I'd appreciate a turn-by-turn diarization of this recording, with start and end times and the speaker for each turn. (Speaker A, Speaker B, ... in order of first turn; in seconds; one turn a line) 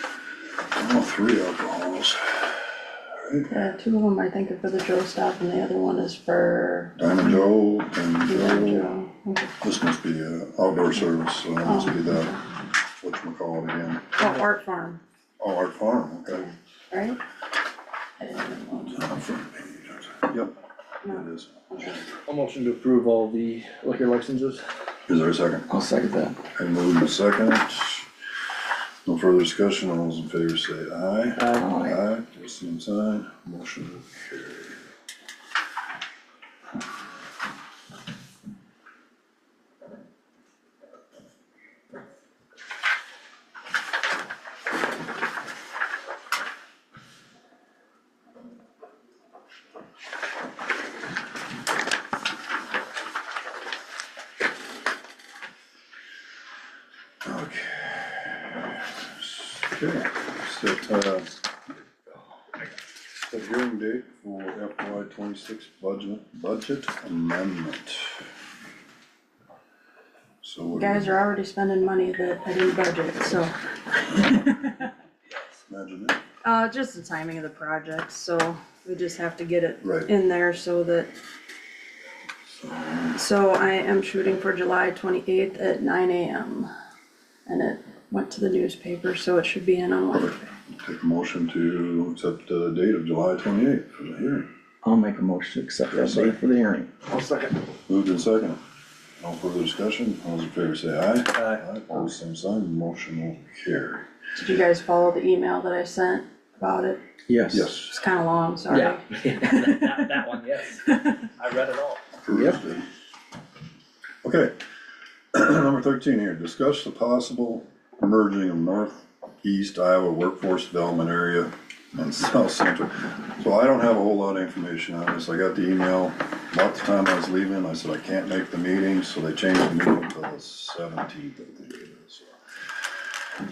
Speaker A: 0.7-3.5
Speaker B: 3.5-7.0
Speaker A: 7.0-8.9
Speaker B: 8.2-9.5
Speaker A: 9.6-12.3
Speaker B: 11.6-12.4
Speaker A: 13.0-14.1
Speaker B: 14.2-15.0
Speaker A: 15.4-16.5
Speaker B: 16.9-17.2
Speaker B: 18.2-19.1
Speaker A: 18.9-20.5
Speaker B: 21.0-22.0
Speaker A: 21.1-22.0
Speaker C: 22.3-24.6
Speaker A: 25.1-25.7
Speaker D: 25.7-26.4
Speaker A: 26.5-28.1
Speaker A: 29.1-34.8
Speaker C: 31.4-31.7
Speaker D: 31.5-32.0
Speaker A: 57.2-58.6
Speaker A: 59.2-61.3
Speaker A: 63.2-68.2
Speaker A: 70.4-71.2
Speaker B: 70.7-74.7
Speaker A: 75.7-76.2
Speaker B: 76.4-81.1
Speaker A: 79.8-80.1
Speaker A: 82.6-83.2
Speaker B: 83.1-86.7
Speaker B: 87.5-90.5
Speaker A: 90.1-94.5
Speaker D: 94.8-96.9
Speaker A: 95.9-96.4
Speaker C: 97.0-97.6
Speaker A: 97.9-98.6
Speaker A: 99.2-104.0
Speaker C: 101.3-101.7
Speaker B: 104.3-107.0
Speaker D: 107.3-107.7
Speaker A: 107.5-107.9
Speaker B: 107.7-110.0
Speaker C: 108.7-112.0
Speaker A: 112.2-112.8
Speaker D: 112.3-112.6
Speaker A: 114.2-114.6
Speaker A: 115.3-132.3